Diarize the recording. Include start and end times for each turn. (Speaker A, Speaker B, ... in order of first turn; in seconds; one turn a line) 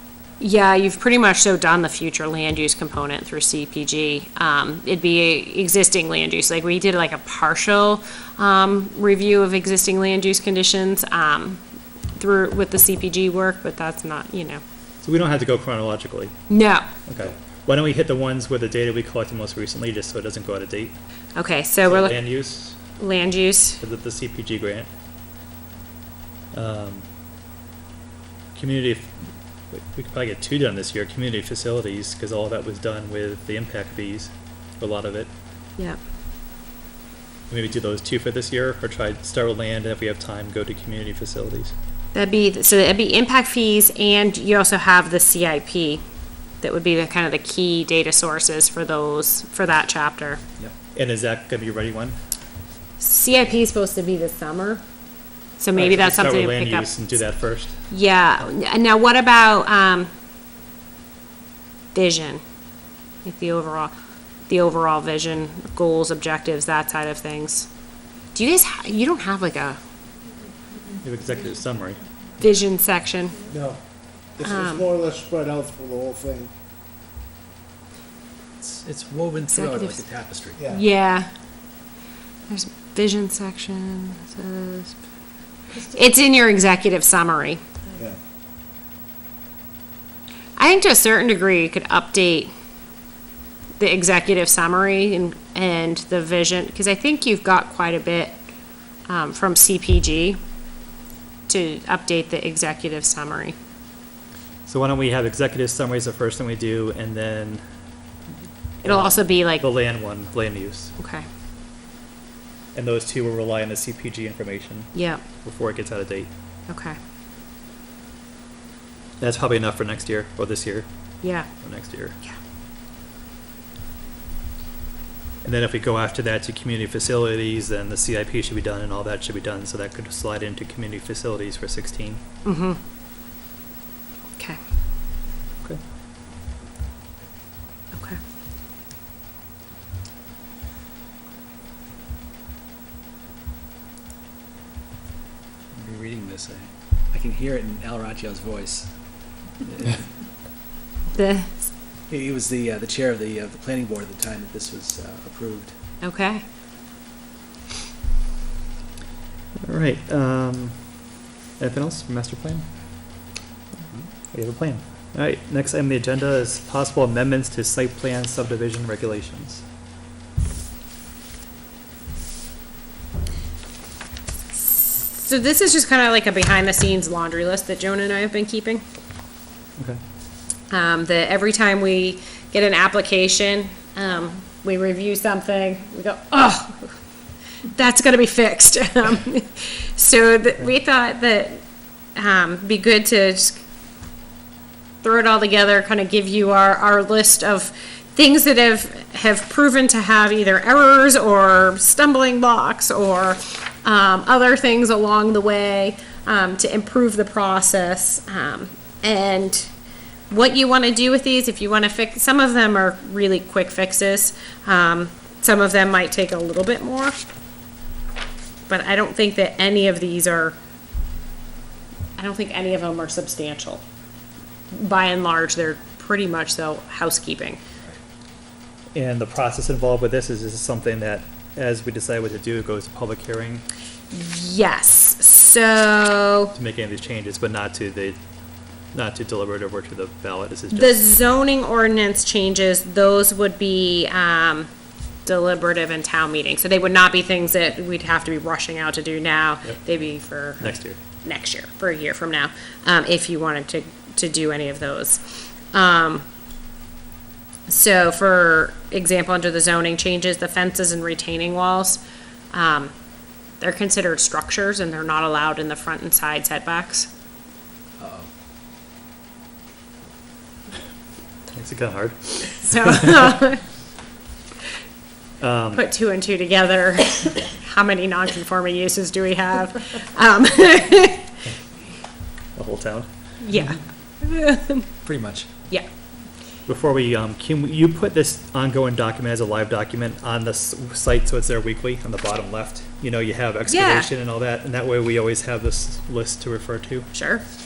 Speaker A: 0.4-11.6
Speaker A: 12.1-14.6
Speaker B: 15.0-16.3
Speaker A: 16.5-16.9
Speaker B: 17.1-20.9
Speaker A: 21.4-22.2
Speaker B: 21.8-22.8
Speaker A: 23.0-23.8
Speaker B: 23.8-24.9
Speaker B: 26.5-27.1
Speaker B: 28.5-29.1
Speaker B: 29.7-35.3
Speaker B: 37.5-41.7
Speaker A: 42.1-46.0
Speaker A: 46.6-50.4
Speaker B: 50.9-52.2
Speaker A: 53.0-54.8
Speaker A: 55.6-56.9
Speaker B: 55.7-57.8
Speaker A: 57.9-60.1
Speaker A: 61.9-62.4
Speaker A: 63.2-63.9
Speaker A: 64.5-67.7
Speaker A: 68.3-69.8
Speaker B: 71.0-72.0
Speaker A: 72.4-73.4
Speaker C: 73.5-73.8
Speaker C: 74.4-76.5
Speaker A: 74.4-74.9
Speaker D: 78.6-80.8
Speaker A: 79.5-80.0
Speaker A: 80.7-81.3
Speaker A: 82.5-85.0
Speaker A: 85.7-87.6
Speaker A: 90.6-92.5
Speaker A: 93.8-98.4
Speaker A: 99.1-100.4
Speaker A: 101.5-103.5
Speaker B: 104.7-107.6
Speaker B: 108.8-110.9
Speaker A: 108.8-109.6
Speaker A: 111.0-111.2
Speaker B: 112.7-116.3
Speaker A: 114.9-115.2
Speaker A: 116.7-117.0
Speaker B: 119.2-120.9
Speaker A: 121.2-121.5
Speaker B: 121.6-122.2
Speaker B: 125.4-132.2
Speaker A: 132.4-132.8
Speaker A: 137.9-138.2
Speaker D: 145.7-148.9
Speaker D: 149.6-150.1
Speaker A: 151.1-151.5
Speaker D: 152.1-155.7
Speaker A: 156.0-156.4
Speaker B: 159.6-160.9
Speaker B: 161.6-162.6
Speaker B: 164.3-169.6
Speaker A: 174.5-178.8
Speaker A: 180.7-186.9
Speaker A: 187.7-191.6
Speaker A: 192.1-193.6
Speaker A: 195.0-209.7
Speaker A: 210.3-217.2
Speaker A: 218.7-220.6
Speaker A: 222.2-223.8
Speaker A: 224.7-227.6
Speaker B: 228.9-233.6
Speaker A: 234.1-236.5
Speaker B: 236.5-238.2
Speaker B: 238.9-241.1
Speaker A: 240.7-244.7
Speaker A: 245.2-256.2
Speaker B: 250.6-251.0
Speaker A: 257.7-262.9
Speaker A: 263.6-267.1
Speaker D: 268.0-268.3
Speaker B: 271.5-273.3
Speaker A: 272.6-273.6
Speaker B: 275.4-275.9
Speaker A: 275.7-281.3
Speaker B: 282.6-283.1
Speaker A: 283.4-284.9
Speaker D: 285.0-285.4
Speaker B: 286.7-297.1
Speaker A: 293.7-294.1
Speaker A: 297.1-297.4